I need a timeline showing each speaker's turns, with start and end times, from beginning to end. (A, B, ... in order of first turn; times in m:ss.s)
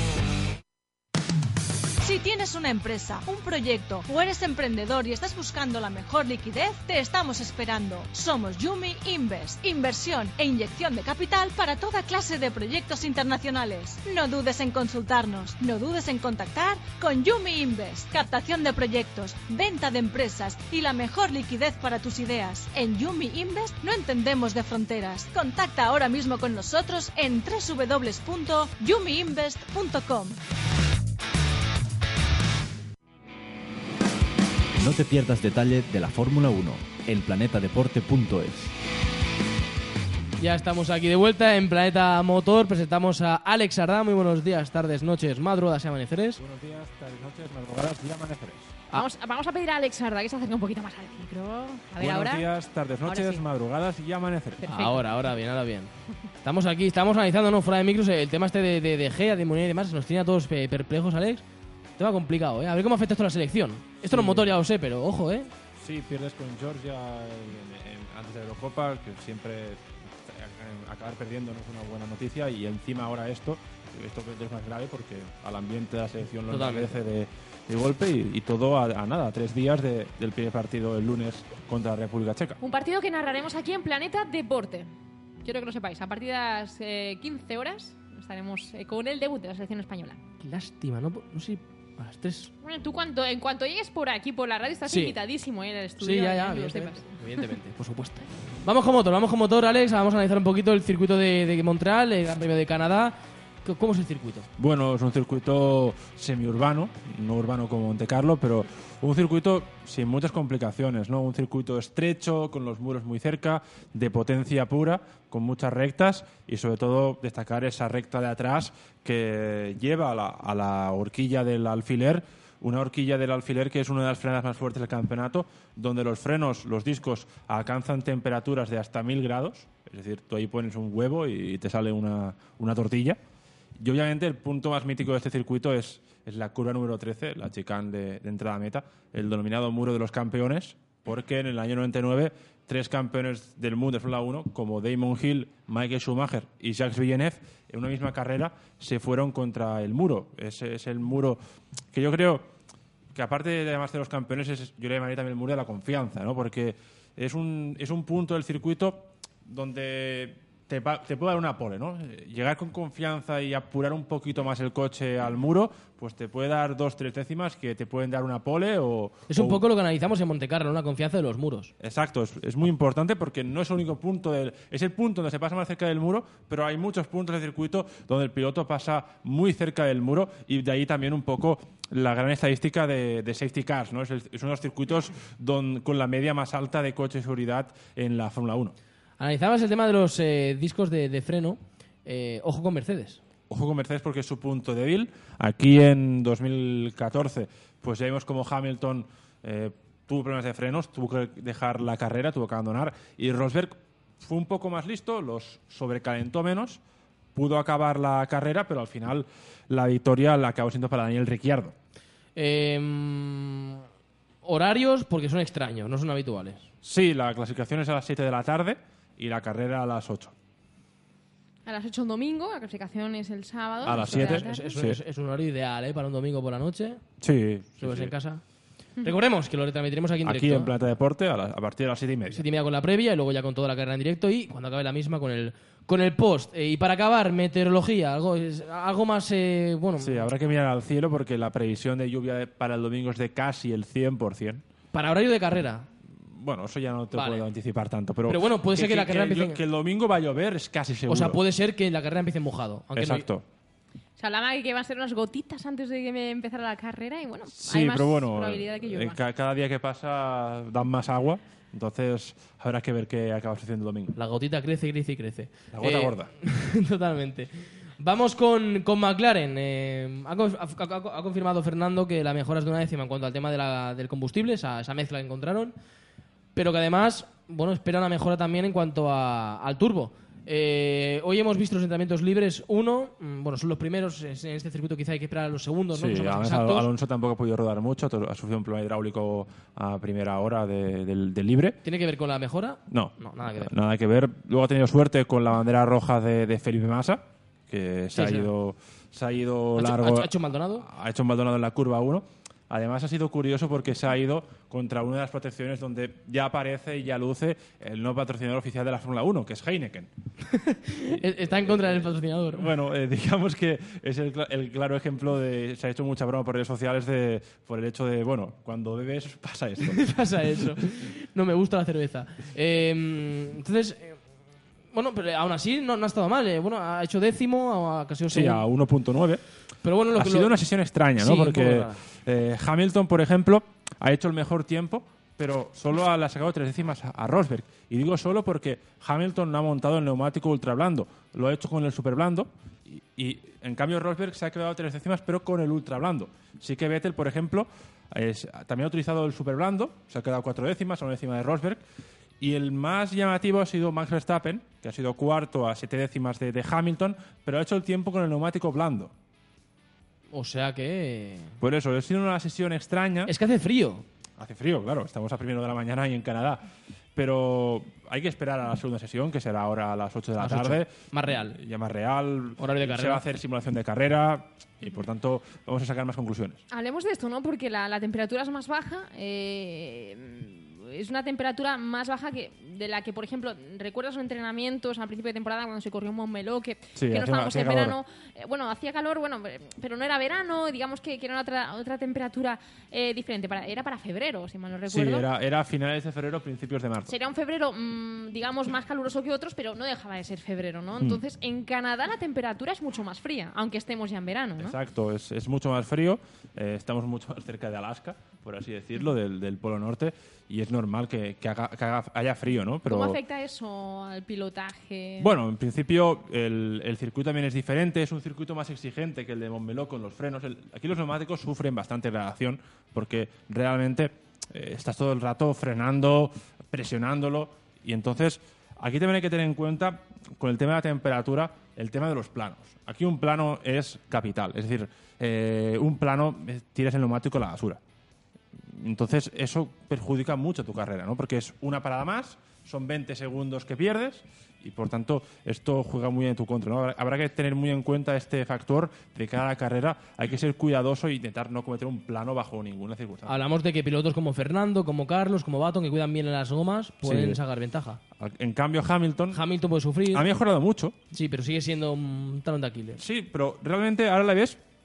0:02.0-0:30.4 A
0:34.8-0:38.7 B
0:40.4-0:46.4 C
0:46.4-0:48.8 D
0:48.9-0:52.5 E
0:52.0-0:54.6 D
0:53.0-0:53.4 E
0:54.6-0:55.0 E
0:54.6-0:55.9 C
0:56.4-1:01.4 C
1:02.0-1:05.5 C
1:04.0-1:04.5 D
1:05.8-1:22.6 D
1:16.5-1:17.0 C
1:22.6-1:24.9 E
1:25.4-1:30.2 E
1:30.4-1:32.5 C
1:32.6-1:37.4 E
1:34.9-1:35.2 C
1:36.0-1:44.5 C
1:44.6-2:13.2 D
2:13.8-2:31.4 D
2:31.9-2:32.5 D
2:33.1-2:49.6 D
2:49.3-2:51.7 C
2:51.8-3:08.8 D
3:09.2-3:13.2 C
3:13.5-3:26.8 D
3:27.3-3:31.7 D
3:32.4-3:33.8 C
3:34.4-3:36.6 C
3:36.8-3:40.3 D
3:41.6-3:44.8 E
3:43.8-3:45.0 D
3:43.8-3:47.0 C
3:47.2-3:48.1 D
3:47.8-3:48.4 C
3:49.0-3:50.7 C
3:50.2-3:52.4 D
3:52.3-4:00.3 C
4:00.0-4:04.6 D
4:04.9-4:05.9 C
4:06.1-4:11.4 D
4:07.1-4:07.4 C
4:08.3-4:09.6 C
4:11.1-4:13.3 C
4:12.9-4:13.4 D
4:14.2-4:19.2 E
4:17.5-4:24.2 D
4:24.2-4:35.7 C
4:25.7-4:26.3 D
4:36.6-4:46.9 C
4:45.9-4:51.8 D
4:51.8-4:53.7 C
4:52.9-5:10.1 D
4:58.1-4:58.5 C
4:59.8-5:00.9 C
5:10.5-5:12.7 C
5:11.1-5:20.0 D
5:19.8-5:24.2 C
5:24.9-5:28.6 C
5:28.3-5:29.4 D
5:29.8-5:30.6 C
5:30.1-5:51.8 D
5:31.2-5:32.0 C
5:52.4-5:59.1 D
6:00.3-6:01.6 C
6:01.6-6:03.3 D
6:03.2-6:04.0 C
6:04.4-6:16.6 D
6:10.4-6:11.6 C
6:12.6-6:13.2 C
6:16.7-6:35.3 E
6:27.0-6:28.0 D
6:34.9-6:37.1 D
6:37.1-6:44.8 E
6:44.6-6:53.2 D
6:52.8-6:55.3 E
6:55.2-7:17.8 D
7:18.7-7:33.4 D
7:33.2-7:38.0 C
7:37.0-7:37.4 D
7:38.2-7:39.4 D
7:39.3-7:40.3 C
7:40.1-7:41.0 D
7:41.1-7:43.0 C
7:43.0-7:44.6 D